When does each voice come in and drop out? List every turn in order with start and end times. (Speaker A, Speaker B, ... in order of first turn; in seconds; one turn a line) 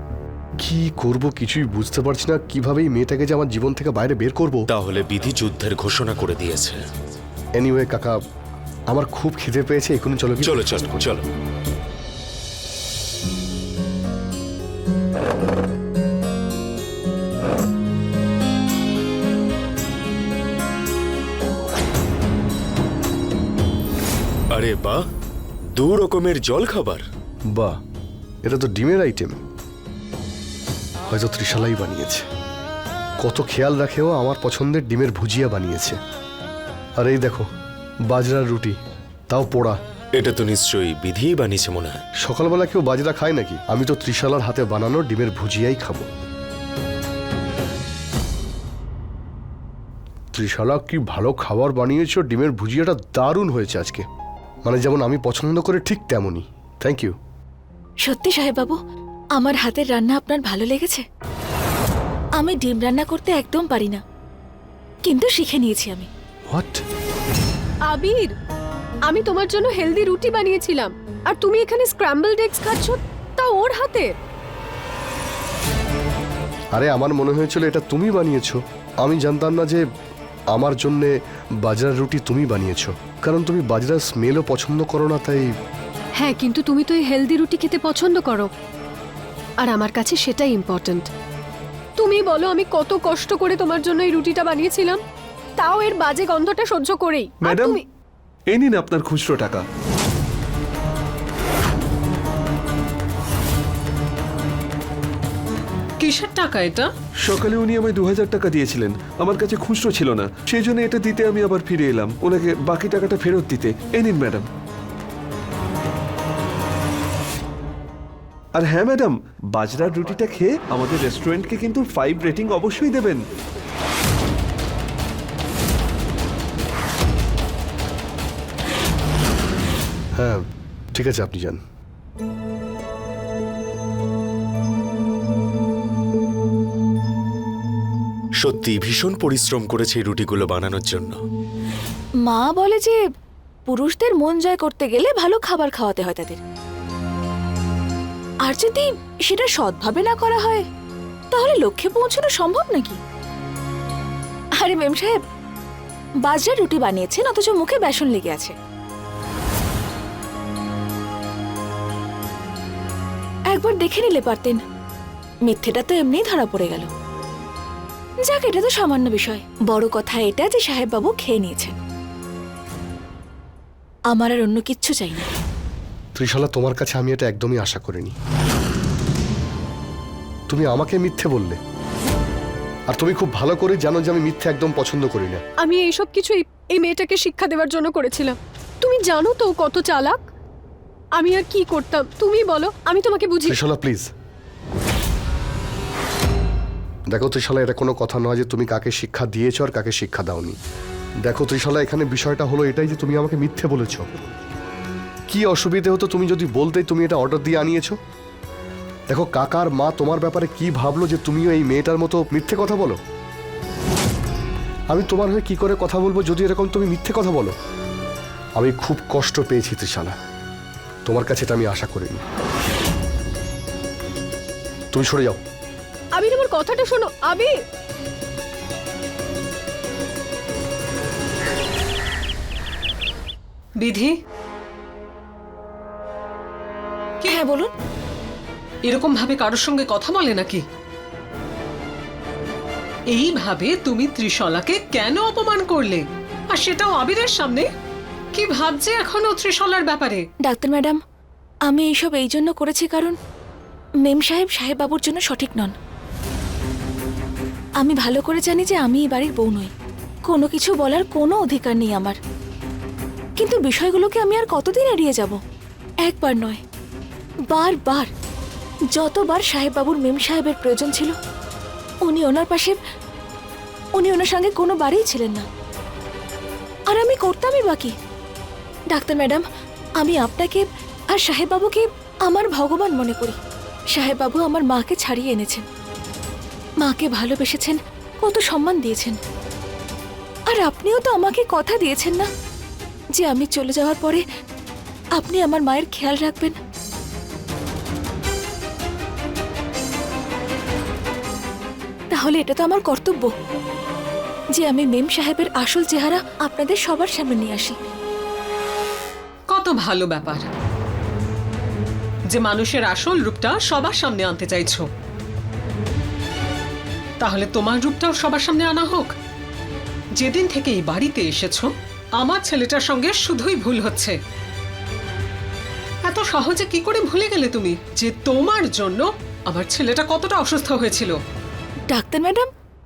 Speaker A: 0.6-4.7
Speaker B: 4.7-6.8
Speaker A: 7.6-8.2
Speaker A: 8.9-11.1
Speaker B: 10.4-11.2
Speaker B: 24.5-25.0
Speaker B: 25.7-27.0
Speaker A: 28.4-29.4
Speaker A: 31.1-32.2
Speaker A: 33.2-36.0
Speaker A: 37.0-37.5
Speaker A: 38.1-38.8
Speaker A: 39.3-39.8
Speaker B: 40.1-42.0
Speaker A: 42.2-46.0
Speaker A: 50.3-54.0
Speaker A: 54.6-57.1
Speaker C: 58.0-58.8
Speaker C: 59.3-61.0
Speaker C: 62.4-64.0
Speaker C: 65.0-66.1
Speaker A: 66.5-66.8
Speaker D: 67.9-68.3
Speaker D: 69.1-74.1
Speaker A: 76.7-79.8
Speaker A: 80.5-85.5
Speaker D: 86.2-88.5
Speaker D: 89.6-91.1
Speaker D: 92.0-95.0
Speaker D: 95.6-97.8
Speaker E: 97.4-97.8
Speaker E: 98.5-99.6
Speaker F: 106.0-106.9
Speaker E: 107.2-114.5
Speaker E: 118.5-123.2
Speaker A: 130.9-131.6
Speaker B: 138.4-141.2
Speaker C: 142.2-143.0
Speaker C: 143.7-146.4
Speaker C: 148.4-150.7
Speaker C: 151.3-153.0
Speaker C: 154.6-155.2
Speaker C: 156.2-158.5
Speaker C: 163.5-164.6
Speaker C: 165.4-166.9
Speaker C: 168.2-171.8
Speaker C: 174.1-175.3
Speaker A: 176.2-178.2
Speaker A: 180.5-181.6
Speaker A: 182.9-185.4
Speaker D: 185.6-190.2
Speaker D: 191.2-193.6
Speaker A: 193.5-194.1
Speaker A: 197.1-200.6
Speaker A: 201.2-204.1
Speaker A: 205.3-207.9
Speaker A: 209.1-213.0
Speaker A: 214.9-217.5
Speaker A: 218.6-220.2
Speaker A: 221.1-222.2
Speaker A: 224.9-225.4
Speaker D: 226.1-227.5
Speaker F: 233.8-234.1
Speaker C: 237.2-237.7
Speaker F: 238.8-240.6
Speaker F: 243.1-247.7
Speaker F: 248.3-250.2
Speaker C: 250.4-251.0
Speaker C: 251.7-253.2
Speaker C: 254.0-255.7
Speaker C: 257.8-259.7
Speaker C: 260.3-262.2
Speaker C: 263.4-265.4
Speaker C: 266.0-266.6
Speaker C: 267.5-268.1
Speaker C: 268.9-271.1
Speaker C: 272.0-272.8
Speaker C: 273.9-275.4
Speaker C: 276.9-277.9
Speaker C: 278.9-279.4
Speaker C: 280.0-283.4
Speaker C: 283.9-285.6
Speaker C: 286.8-289.1
Speaker C: 290.5-292.3
Speaker C: 293.1-294.2
Speaker C: 295.1-296.6
Speaker C: 302.1-303.3
Speaker C: 304.5-307.8
Speaker F: 309.5-310.4
Speaker F: 312.3-314.9
Speaker F: 317.2-319.1
Speaker F: 320.1-324.1
Speaker F: 326.1-331.2
Speaker C: 331.9-332.5